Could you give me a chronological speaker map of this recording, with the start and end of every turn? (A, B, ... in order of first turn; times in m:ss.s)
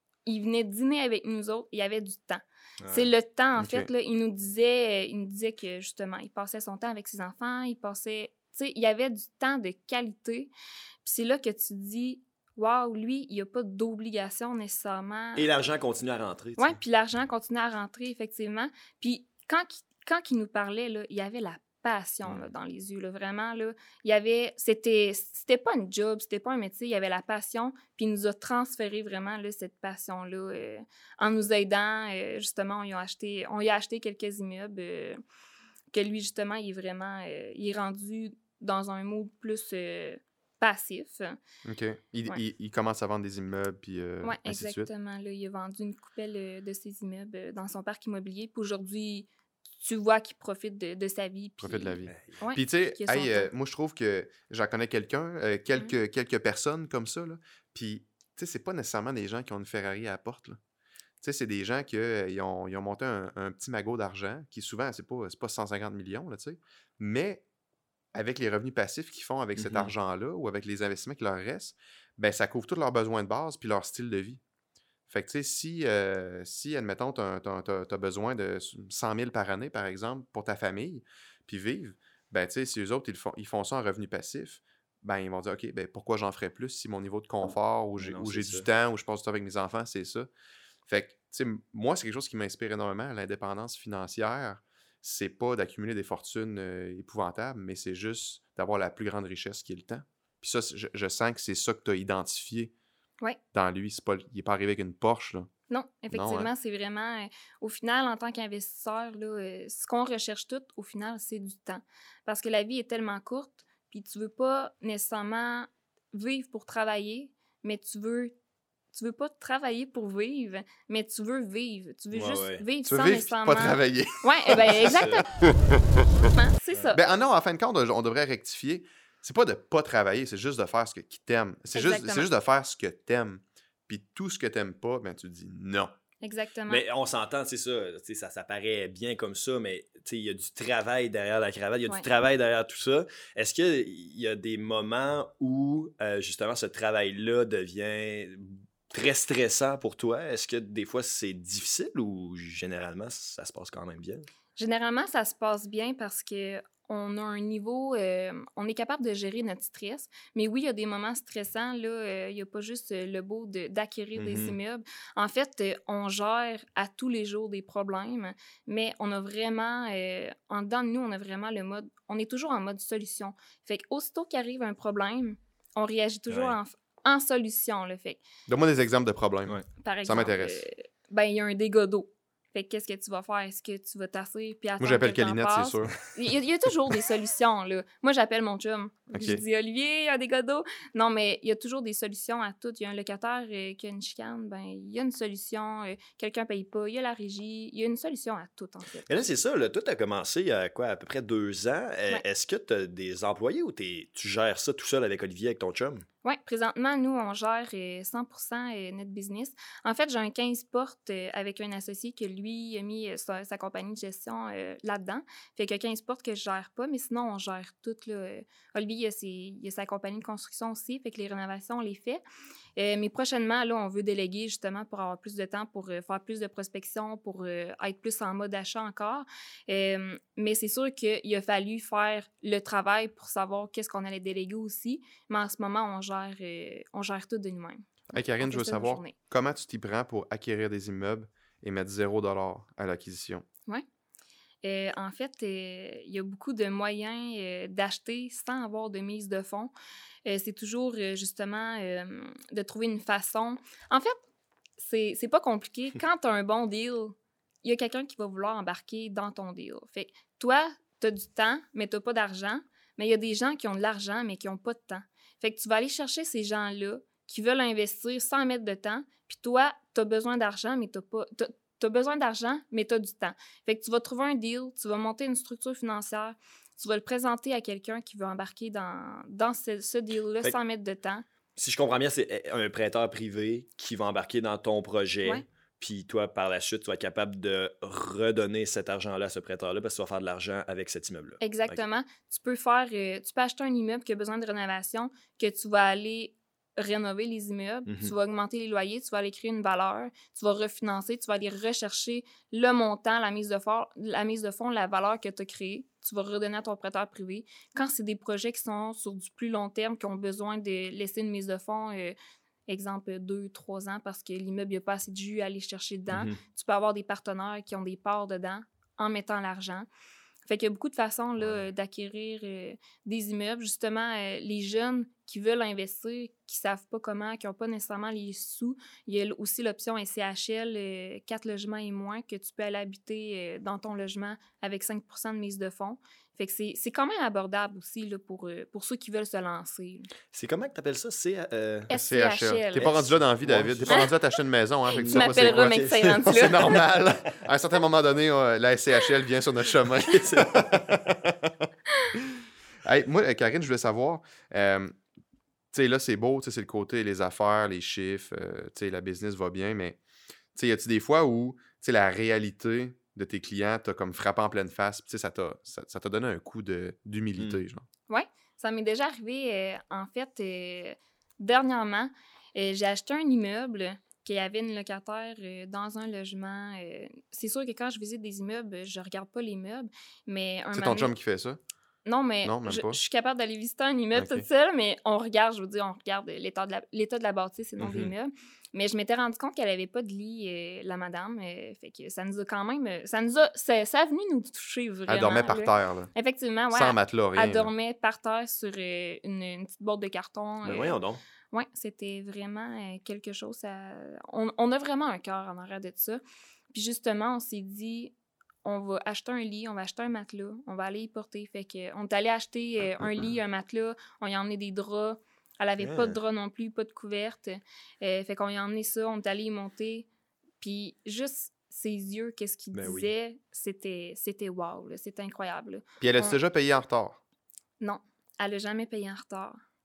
0:00.3-0:10.5 A
0:02.8-0:03.1 B
0:03.6-0:03.9 C
0:11.0-0:15.5 A
0:15.4-0:16.8 B
0:16.6-0:35.2 A
0:22.2-0:22.5 B
0:35.9-0:41.4 A
0:41.6-0:44.9 C
0:44.2-0:49.3 A
0:49.8-0:53.5 A
0:51.6-1:00.6 C
0:52.1-0:52.4 B
1:01.2-1:07.4 C
1:08.1-1:14.4 C
1:09.6-1:09.9 B
1:15.1-1:30.3 C
1:28.0-1:28.7 B
1:30.9-1:42.7 C
1:43.5-1:45.5 C
1:45.7-1:58.3 A
1:46.1-1:46.5 C
1:58.9-2:05.3 A
2:02.1-2:02.6 B
2:02.9-2:06.3 C
2:04.8-2:05.2 B
2:06.2-2:07.0 A
2:06.9-2:15.9 C
2:11.8-2:12.3 A
2:16.2-2:16.8 A
2:16.7-2:34.3 B
2:34.6-2:58.2 A
2:44.2-2:44.6 B
2:56.3-2:56.6 B
2:58.5-3:00.7 C
2:59.8-3:19.1 A
3:04.8-3:06.0 C
3:09.1-3:09.4 C
3:19.1-3:26.0 B
3:26.2-3:42.2 A
3:42.8-3:59.2 A
3:58.1-4:03.4 C
4:04.6-4:09.7 A
4:10.2-4:14.2 A
4:14.8-4:41.3 A
4:41.6-4:51.8 B
4:51.4-5:12.2 A
4:57.9-4:58.1 B
5:12.7-5:19.9 A
5:16.1-5:16.4 B
5:20.5-5:40.1 A
5:21.4-5:21.6 B
5:40.3-5:41.9 B
5:41.9-5:43.0 A
5:41.9-5:51.7 C
5:42.8-5:44.1 B
5:43.9-5:44.2 A
5:44.9-5:46.2 B
5:45.0-5:46.8 A
5:50.0-5:50.7 B
5:52.8-5:55.0 C
5:55.7-6:00.0 C
6:00.6-6:07.8 C
6:08.1-6:21.1 A
6:20.7-6:21.6 C
6:22.1-6:41.0 A
6:22.4-6:23.0 C
6:24.2-6:24.5 C
6:27.8-6:28.1 B
6:35.1-6:36.1 C
6:36.7-6:37.7 C
6:40.6-6:41.2 B
6:41.5-6:46.2 A
6:46.7-6:48.1 A
6:48.6-7:00.1 A
6:55.8-6:56.2 B
7:00.6-7:06.4 A
7:02.7-7:03.1 B
7:06.0-7:07.2 C
7:07.8-7:09.6 A